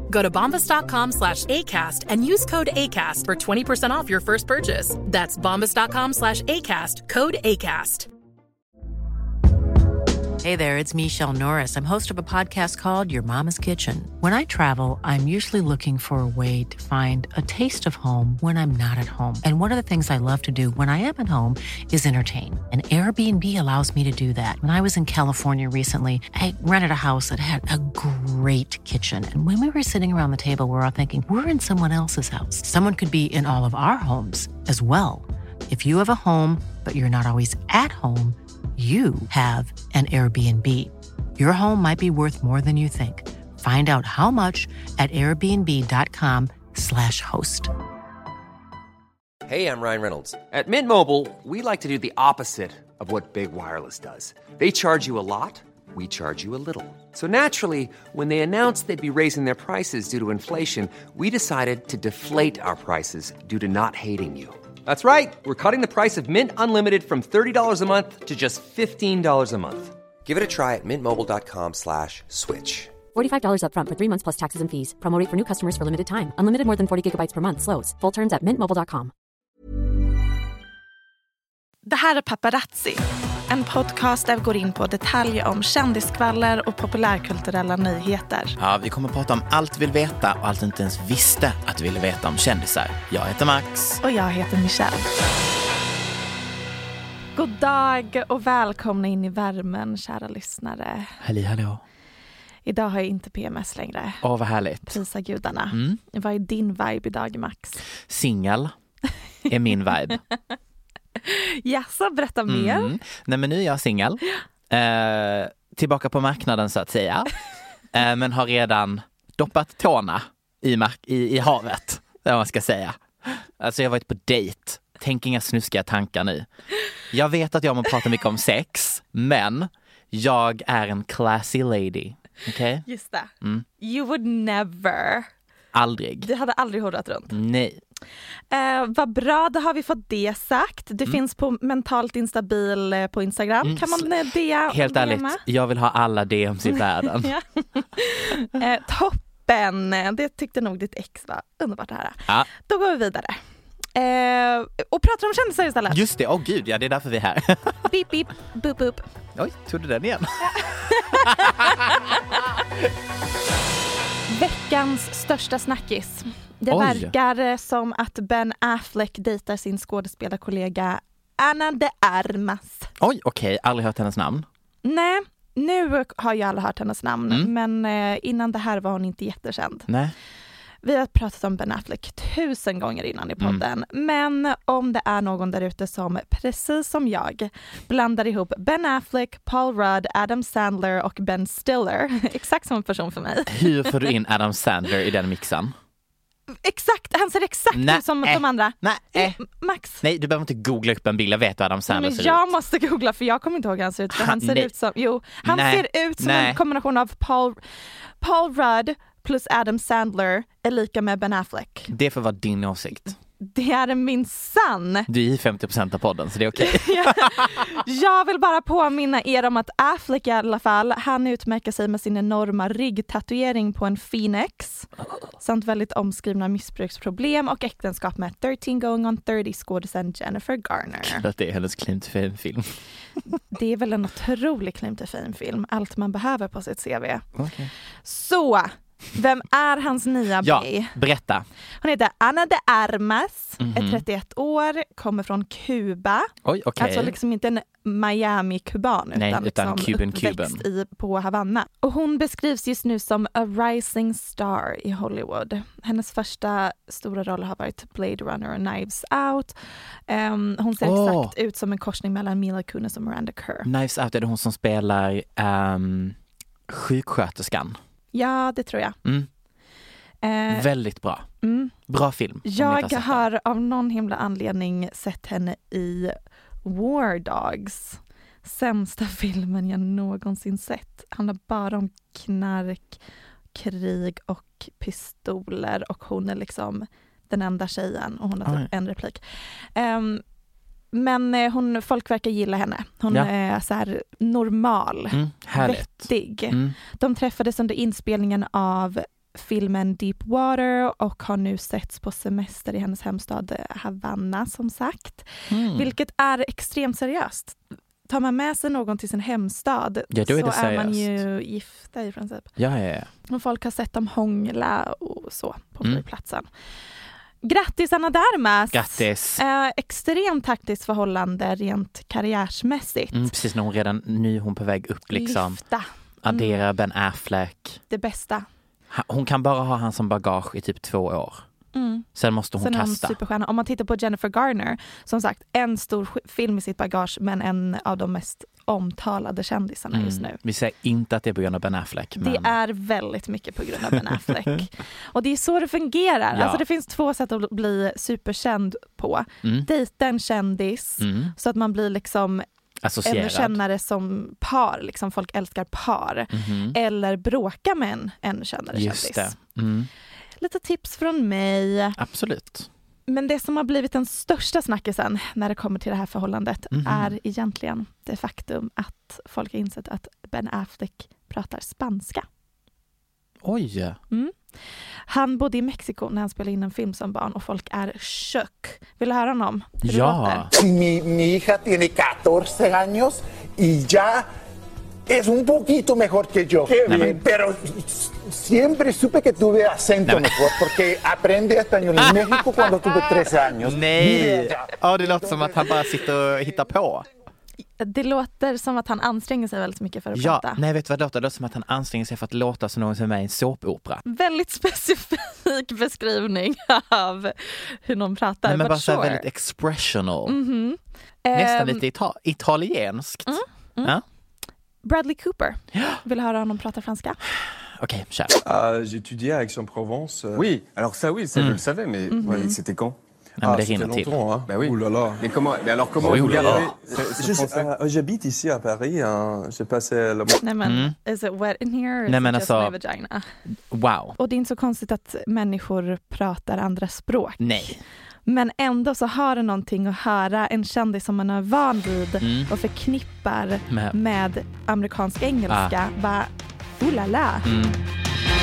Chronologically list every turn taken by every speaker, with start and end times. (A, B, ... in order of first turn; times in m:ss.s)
0:00.1-0:08.1 A
0:10.4-0:47.7 B
0:49.5-1:13.0 C
1:13.2-1:19.1 D
1:21.9-1:28.6 E
1:28.6-1:34.0 F
1:34.0-1:35.1 E
1:37.4-1:41.2 E
1:41.2-1:41.8 F
1:42.7-1:44.2 E
1:44.2-1:45.0 F
1:44.9-1:47.8 E
1:45.7-1:46.0 F
1:48.1-1:48.7 F
1:49.5-1:50.2 F
1:51.2-1:52.9 E
1:52.5-1:57.3 F
1:57.9-2:06.5 F
2:07.1-2:12.8 F
2:12.9-2:15.3 E
2:15.7-2:16.3 F
2:16.2-2:17.4 E
2:17.3-2:17.8 F
2:18.5-2:25.4 E
2:23.6-2:24.2 F
2:24.7-2:27.3 F
2:26.7-2:33.4 E
2:34.0-2:36.0 E
2:35.9-2:37.9 F
2:37.8-2:39.0 E
2:39.4-2:41.7 F
2:40.5-2:41.8 E
2:44.3-2:52.9 E
2:46.7-2:47.1 F
2:53.0-2:54.5 F
2:54.8-2:59.9 E
2:59.9-3:00.2 F
3:00.8-3:13.9 E
3:13.5-3:15.7 F
3:16.6-3:20.0 E
3:17.7-3:19.4 F
3:20.0-3:22.5 F
3:21.9-3:27.6 E
3:24.1-3:24.7 F
3:25.4-3:26.6 F
3:28.2-3:31.9 E
3:31.9-3:33.2 F
3:33.4-3:35.1 E
3:35.1-3:37.6 F
3:36.6-3:44.9 E
3:45.4-3:51.2 E
3:51.0-3:52.7 F
3:53.5-3:57.2 E
3:57.4-3:57.7 F
3:58.0-4:00.9 E
4:00.4-4:01.4 F
4:01.8-4:19.5 E
4:03.6-4:04.0 F
4:06.4-4:07.2 F
4:09.2-4:10.6 F
4:20.1-4:23.7 E
4:20.8-4:21.3 F
4:23.6-4:26.2 F
4:26.7-4:27.8 F
4:28.1-4:29.0 E
4:30.2-4:30.7 E
4:30.5-4:31.3 F
4:31.4-4:31.7 E
4:31.9-4:33.3 F
4:32.4-4:36.1 E
4:36.6-4:43.0 E
4:43.5-4:49.2 E
4:49.8-4:50.2 E
4:50.9-5:07.6 E
4:55.1-4:56.8 F
5:05.5-5:05.9 F
5:08.1-5:12.5 E
5:10.1-5:11.2 F
5:12.6-5:13.1 F
5:13.3-5:16.5 E
5:17.4-5:23.3 E
5:18.7-5:19.4 F
5:23.1-5:25.6 F
5:25.1-5:26.6 E
5:26.2-5:27.8 F
5:27.9-5:28.5 E
5:28.9-5:31.4 F
5:31.7-5:32.1 E
5:32.2-5:33.2 F
5:32.6-5:40.4 E
5:39.9-5:42.5 F
5:42.2-5:52.4 E
5:46.3-5:46.6 F
5:51.0-5:51.3 F
5:52.8-5:53.6 F
5:53.0-5:59.4 E
5:56.3-5:56.8 F
5:58.7-5:59.9 F
6:00.4-6:02.0 E
6:02.0-6:02.7 F
6:03.1-6:12.2 E
6:06.7-6:07.2 F
6:13.4-6:14.0 F
6:15.1-6:20.5 E
6:19.8-6:20.5 F
6:20.5-6:24.3 G
6:25.1-6:35.7 G
6:26.8-6:27.2 F
6:30.0-6:30.6 F
6:32.0-6:32.9 F
6:33.6-6:37.1 F
6:37.8-6:40.6 E
6:40.1-6:44.0 F
6:44.0-6:49.2 E
6:48.5-6:50.4 F
6:50.3-6:51.8 E
6:51.3-6:54.0 F
6:53.3-6:54.0 E
6:54.8-6:57.2 E
6:55.7-6:56.0 F
6:57.8-6:58.4 F
6:58.4-7:00.5 H
7:00.4-7:03.0 I
7:02.1-7:02.6 E
7:03.4-7:04.2 F
7:03.4-7:05.2 H
7:04.5-7:07.6 I
7:06.0-7:06.7 F
7:06.0-7:10.4 H
7:10.4-7:13.3 E
7:10.6-7:11.0 F
7:12.1-7:12.7 F
7:13.7-7:14.2 F
7:14.2-7:17.8 E
7:17.4-7:17.8 F
7:18.3-7:27.5 E
7:22.2-7:22.5 F
7:23.7-7:24.0 F
7:25.5-7:25.7 F
7:27.4-7:27.8 F